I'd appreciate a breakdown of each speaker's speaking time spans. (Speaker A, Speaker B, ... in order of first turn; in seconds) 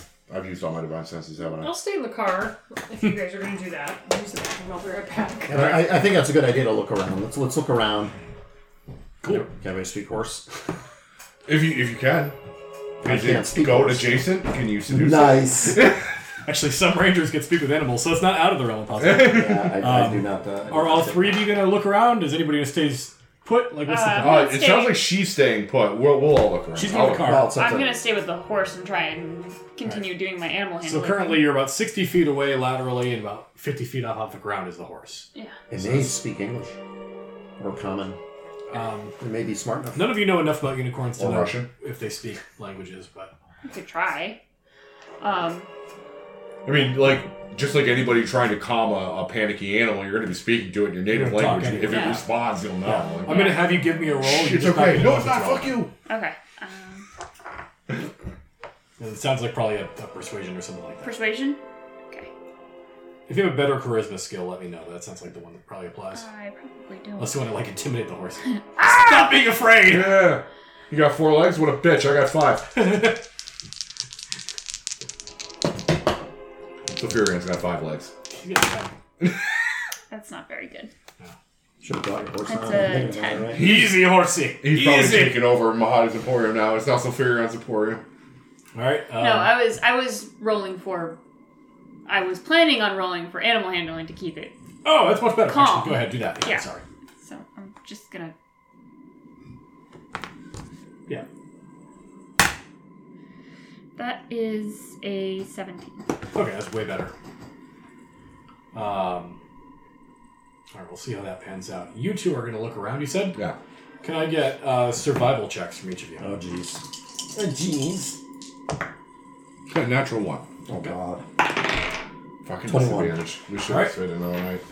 Speaker A: 0.3-1.7, 11.4-12.3, 13.0-16.1, 19.0-19.7, 24.2-27.4, 41.2-41.7, 46.6-53.5, 54.2-55.9, 69.8-72.8, 76.9-78.1, 83.5-83.9, 84.6-88.0, 119.7-120.4, 122.4-124.6
Speaker B: 1.6-5.6
Speaker C: 5.5-8.1, 9.3-10.6, 13.0-14.3, 14.9-15.8, 19.3-21.4, 27.2-27.9, 35.7-36.7, 37.6-38.2, 39.2-40.2, 81.8-83.7, 116.2-118.2, 120.7-121.3, 122.7-123.2
Speaker D: 16.4-24.4, 26.7-27.6, 30.8-35.3, 38.7-39.1, 39.9-43.3, 51.1-52.2, 52.8-55.8, 59.0-61.2, 63.3-66.2, 67.2-70.2, 72.7-73.2, 78.3-78.9, 83.5-85.5, 88.7-89.5, 94.8-96.8, 106.3-107.1, 108.7-109.4, 110.7-113.4, 114.0-116.3, 123.7-124.0
Speaker E: 23.9-25.0, 27.6-31.4, 43.6-44.4, 45.2-45.7, 51.9-52.3, 53.2-53.9, 56.0-57.0, 61.0-62.3, 66.1-67.4, 68.8-69.3, 80.1-80.9, 82.5-83.5, 89.2-91.2, 92.0-94.5, 95.5-96.6, 97.2-98.3, 104.0-106.0